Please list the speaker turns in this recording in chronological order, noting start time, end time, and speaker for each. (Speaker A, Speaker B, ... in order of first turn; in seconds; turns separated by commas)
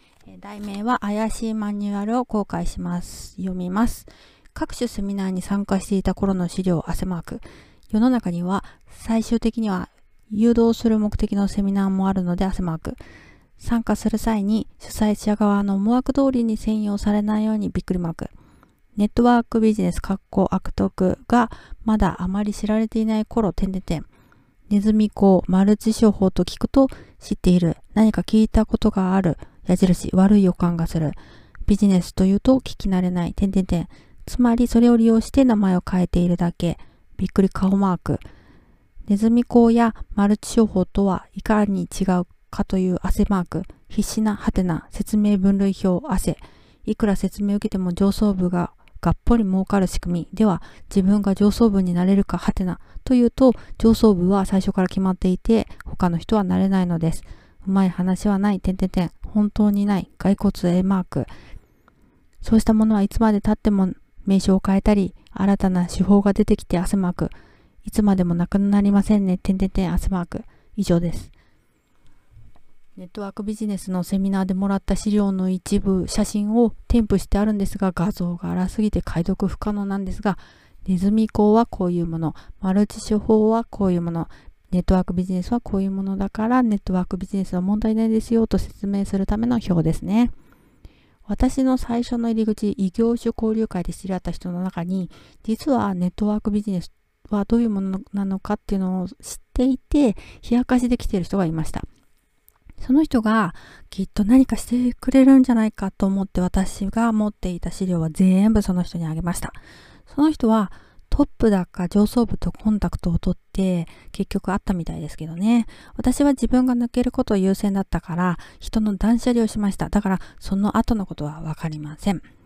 Speaker A: 0.3-13.0, Speaker A: 13.6-18.3, Speaker A: 19.0-24.1, Speaker A: 24.7-38.2, Speaker A: 39.1-61.3, Speaker A: 62.4-71.3, Speaker A: 73.0-90.3, Speaker A: 91.3-101.9, Speaker A: 102.8-122.2